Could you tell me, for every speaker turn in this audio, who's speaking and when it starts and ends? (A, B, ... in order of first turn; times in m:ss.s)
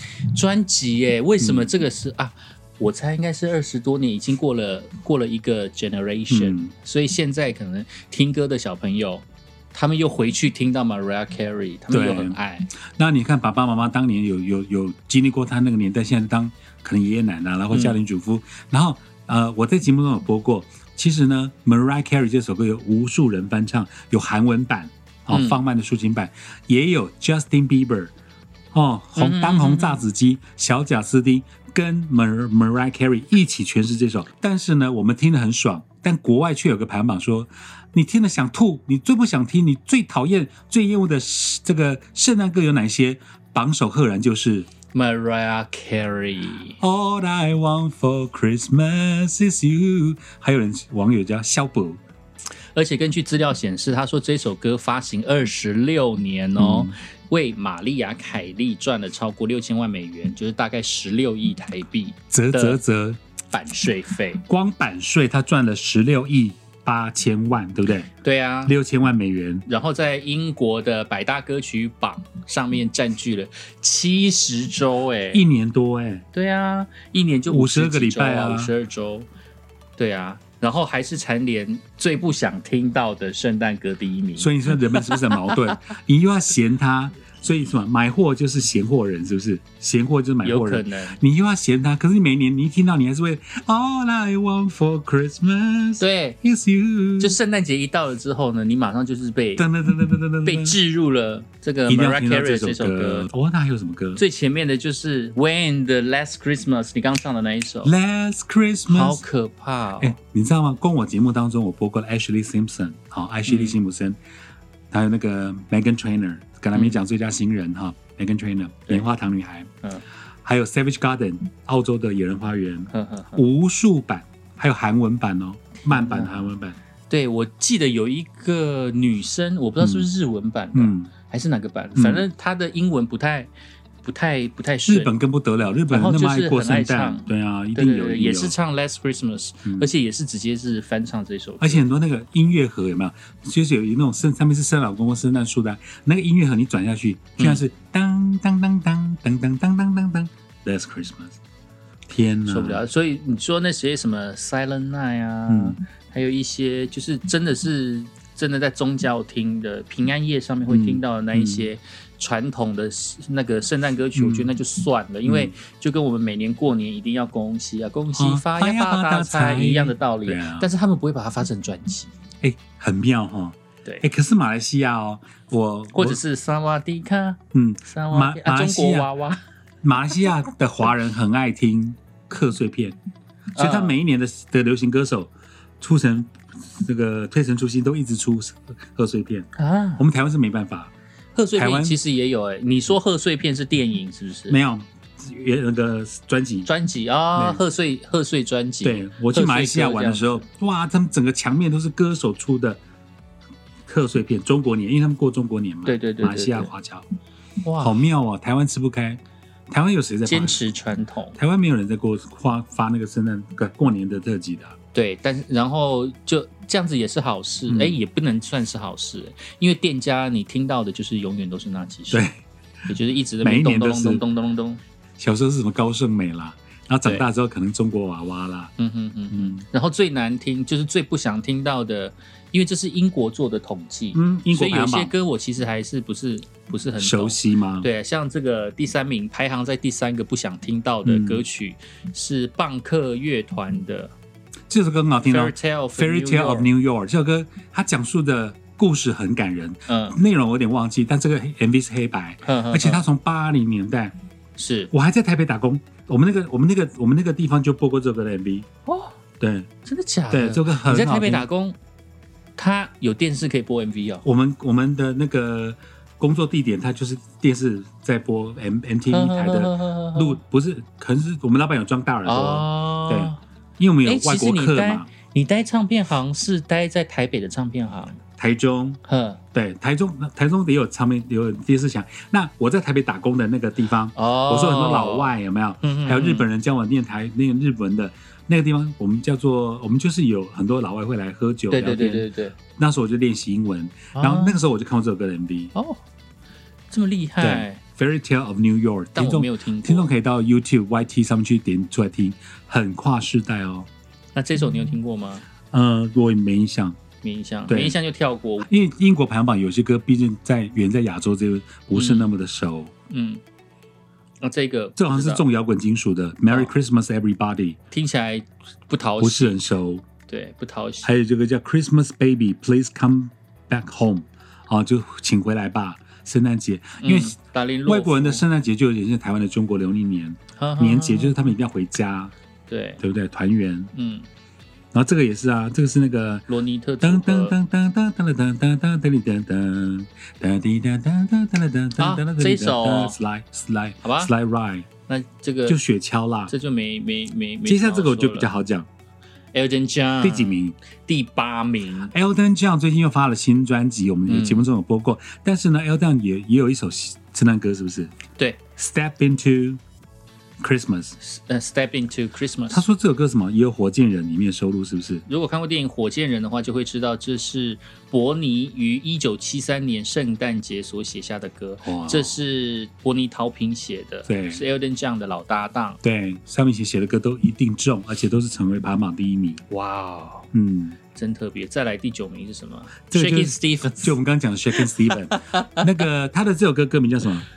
0:00.2-0:12.7 A
0:01.4-0:01.7 B
0:06.3-0:06.7 B
0:11.9-0:12.4 B
0:12.9-0:28.1 B
0:17.7-0:18.0 A
0:25.3-0:25.6 A
0:28.7-0:44.7 B
0:29.2-0:30.0 A
0:44.9-0:46.8 A
0:46.8-0:52.0 B
0:52.7-1:02.8 A
0:56.6-0:56.9 B
1:02.3-1:03.2 B
1:03.5-1:04.4 A
1:04.4-1:08.1 B
1:08.2-1:08.7 A
1:08.6-1:09.6 B
1:09.6-1:15.4 A
1:15.3-1:16.2 B
1:16.3-1:19.3 A
1:17.5-1:18.7 B
1:20.0-1:25.6 A
1:24.4-1:37.4 B
1:30.4-1:31.2 A
1:36.0-1:36.4 A
1:37.2-1:39.7 A
1:39.6-1:40.8 B
1:40.4-1:43.3 A
1:41.9-1:44.2 B
1:44.2-1:47.9 A
1:47.8-1:49.2 B
1:48.9-1:50.1 A
1:50.0-1:54.2 B
1:53.5-1:53.8 A
1:54.9-1:59.7 B
1:56.7-1:57.0 A
2:00.4-2:06.8 B
2:02.9-2:03.4 A
2:05.8-2:06.5 A
2:07.1-2:13.5 A
2:09.8-2:10.1 B
2:10.7-2:11.1 B
2:12.0-2:12.2 B
2:14.0-2:15.1 A
2:14.8-2:18.5 B
2:15.9-2:21.8 A
2:21.6-2:31.4 B
2:27.4-2:27.6 A
2:32.1-2:32.8 B
2:32.5-2:52.1 A
2:35.5-2:35.8 B
2:40.7-2:41.7 B
2:44.1-2:44.5 B
2:45.2-2:45.5 B
2:48.2-2:50.7 B
2:52.4-2:56.2 B
2:55.9-2:59.4 A
2:57.5-2:59.1 B
2:59.8-3:03.0 B
3:03.5-3:09.5 B
3:03.5-3:04.0 A
3:09.5-3:10.0 A
3:10.0-3:10.9 B
3:11.3-3:14.6 A
3:11.5-3:12.0 B
3:14.5-3:16.7 B
3:16.6-3:20.4 A
3:17.3-3:17.6 B
3:18.8-3:22.8 B
3:23.9-3:27.0 B
3:25.8-3:26.7 A
3:27.6-3:28.0 A
3:27.8-3:30.6 B
3:30.2-3:31.4 A
3:31.3-3:34.7 B
3:34.9-3:42.3 A
3:37.7-3:38.0 B
3:42.1-3:42.4 B
3:42.9-3:44.8 A
3:43.4-3:44.2 B
3:45.2-3:48.7 B
3:48.8-4:04.1 A
3:49.3-3:49.6 B
3:54.1-3:55.1 B
3:57.0-3:57.9 B
4:01.0-4:01.4 B
4:04.7-4:14.1 B
4:05.2-4:06.7 A
4:09.9-4:10.2 A
4:12.4-4:13.0 A
4:14.6-4:14.9 A
4:14.9-4:18.7 B
4:18.8-4:19.2 A
4:19.4-4:19.7 B
4:19.8-4:21.8 A
4:20.3-4:21.4 B
4:22.6-4:24.2 A
4:24.2-4:35.1 B
4:29.1-4:30.4 A
4:32.2-4:33.4 A
4:34.0-4:38.2 A
4:38.4-4:39.0 B
4:39.0-4:39.4 A
4:39.5-4:55.7 B
4:44.1-4:46.5 A
4:51.7-4:52.5 A
4:54.1-4:54.6 A
4:55.7-4:56.0 A
4:56.9-4:57.8 A
4:57.4-5:03.9 B
4:59.1-5:00.1 A
5:04.3-5:05.4 A
5:05.7-5:07.0 B
5:07.2-5:08.7 A
5:07.7-5:08.0 B
5:08.7-5:12.9 B
5:11.9-5:12.3 A
5:13.1-5:13.4 A
5:14.4-5:15.4 A
5:15.0-5:17.8 B
5:17.9-5:19.6 A
5:19.2-5:20.0 B
5:20.3-5:21.1 A
5:21.0-5:27.3 B
5:27.0-5:28.4 A
5:27.8-5:32.3 B
5:30.6-5:31.5 A
5:32.7-5:33.0 A
5:33.0-5:33.9 B
5:33.9-5:34.3 A
5:34.9-5:36.5 B
5:36.5-5:37.6 A
5:37.0-5:44.9 B
5:42.0-5:43.2 A
5:44.0-5:44.3 A
5:45.1-5:45.8 A
5:45.7-5:46.5 B
5:46.5-5:48.5 A
5:47.6-5:48.9 B
5:49.5-5:52.1 A
5:50.2-5:50.7 B
5:52.1-5:58.1 B
5:54.3-5:54.6 A
5:58.4-5:58.6 A
5:58.8-5:59.8 B
6:00.6-6:01.2 B
6:01.2-6:02.8 A
6:02.7-6:05.2 B
6:05.2-6:16.0 A
6:11.8-6:12.4 B
6:14.3-6:14.6 B
6:16.0-6:19.6 B
6:19.7-6:20.5 A
6:20.5-6:21.0 B
6:21.1-6:24.2 A
6:23.1-6:27.4 B
6:24.7-6:25.9 A